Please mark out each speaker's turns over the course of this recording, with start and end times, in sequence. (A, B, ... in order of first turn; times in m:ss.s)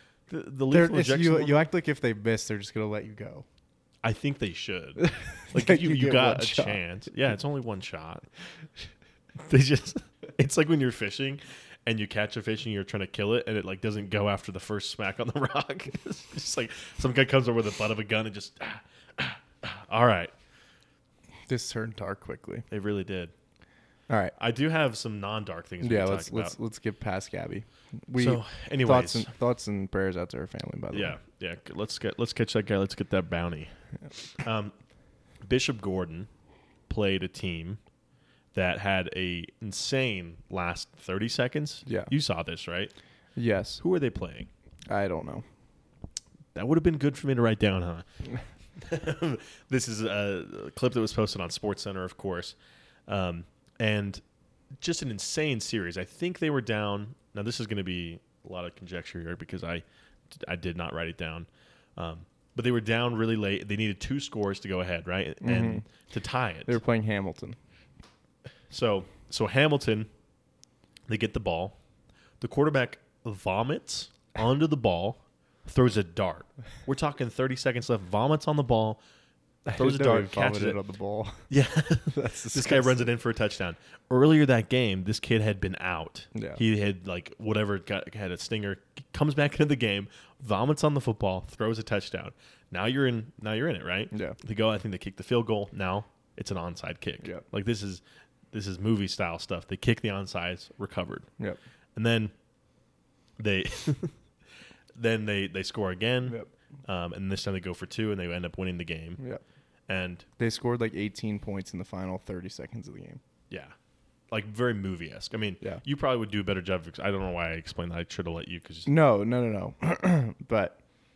0:00.3-0:01.7 A
0:00.7-0:03.4 B
0:04.0-0:08.2 A
0:05.0-0:06.8 B
0:09.4-0:20.3 A
0:21.5-0:22.7 B
0:22.7-0:23.3 A
0:24.1-0:24.4 B
0:24.4-0:26.6 A
0:25.8-0:31.2 B
0:28.2-0:29.3 A
0:30.9-0:34.8 A
0:35.4-0:36.3 A
0:36.9-0:37.8 A
0:38.5-0:42.9 A
0:41.9-0:42.1 B
0:43.4-0:43.8 B
0:43.8-0:44.5 A
0:44.9-0:45.4 B
0:46.6-0:48.1 A
0:48.8-0:52.6 A
0:53.1-0:54.2 A
0:54.8-1:06.8 A
1:05.4-1:05.9 B
1:06.7-1:07.6 B
1:08.7-1:10.1 A
1:11.1-1:11.8 A
1:12.4-1:19.0 A
1:19.7-1:21.5 B
1:19.7-1:20.8 A
1:21.5-1:41.3 A
1:22.1-1:23.1 B
1:26.3-1:26.6 B
1:34.1-1:34.4 B
1:42.0-1:42.3 A
1:43.4-1:44.2 A
1:45.0-1:49.2 A
1:46.3-1:46.5 B
1:49.9-1:50.3 A
1:50.4-1:53.2 B
1:54.3-1:58.9 A
1:58.9-2:00.8 B